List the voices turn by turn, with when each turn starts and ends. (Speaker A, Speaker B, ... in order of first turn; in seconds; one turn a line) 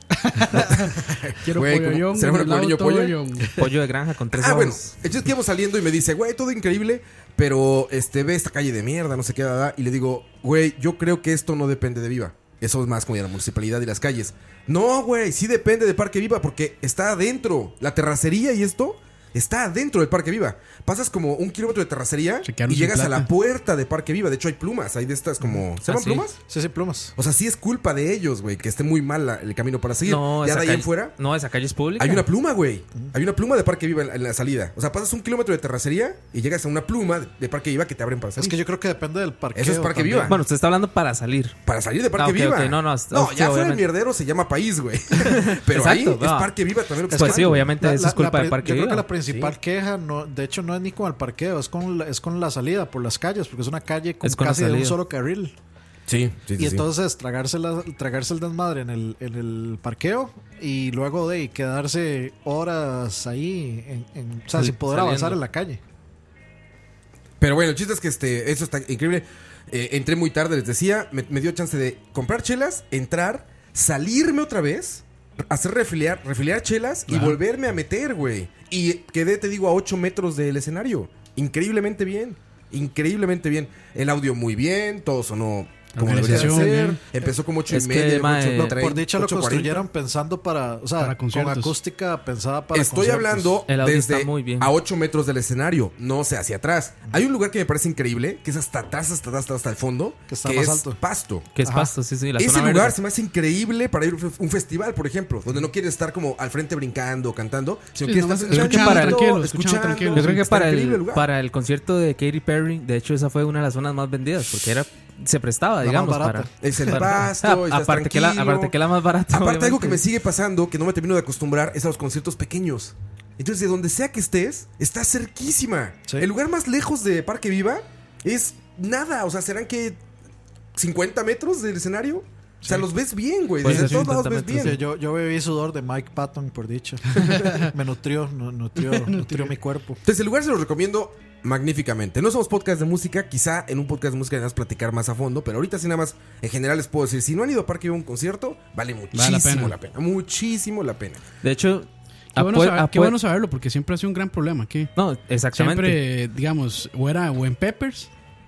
Speaker A: 0.5-3.2
Speaker B: 1.4-3.6
Speaker C: 3.5-4.9
Speaker A: 4.3-26.4
Speaker B: 22.4-23.3
Speaker C: 25.9-26.2
Speaker D: 26.5-27.1
Speaker A: 27.1-31.1
Speaker C: 30.1-32.2
Speaker A: 32.0-38.6
Speaker D: 38.4-40.4
Speaker A: 39.5-40.4
Speaker C: 40.3-41.5
Speaker A: 41.6-47.7
Speaker C: 42.1-43.9
Speaker C: 45.2-46.5
Speaker C: 47.1-49.0
Speaker D: 47.1-55.5
Speaker A: 49.3-49.5
Speaker C: 54.2-55.0
Speaker A: 56.1-56.9
Speaker D: 56.5-65.8
Speaker C: 64.5-65.4
Speaker A: 67.4-89.9
Speaker B: 77.1-77.4
Speaker B: 85.9-87.0
Speaker D: 86.2-86.9
Speaker C: 87.7-88.8
Speaker D: 88.7-93.6
Speaker B: 91.0-91.7
Speaker A: 92.7-101.5
Speaker C: 93.7-94.7
Speaker D: 100.3-101.0
Speaker C: 101.5-103.0
Speaker D: 101.6-101.9
Speaker A: 102.4-111.2
Speaker B: 108.0-110.4
Speaker C: 108.5-109.2
Speaker C: 110.1-120.0
Speaker D: 115.8-117.0
Speaker A: 116.6-118.8
Speaker A: 119.3-130.0
Speaker A: 130.8-134.8
Speaker C: 133.6-134.8
Speaker B: 133.7-134.0
Speaker D: 134.5-140.0
Speaker B: 138.9-139.5
Speaker A: 140.0-151.2
Speaker B: 149.1-149.8
Speaker C: 151.4-153.1
Speaker B: 152.3-154.9
Speaker C: 154.9-156.0
Speaker B: 155.5-158.1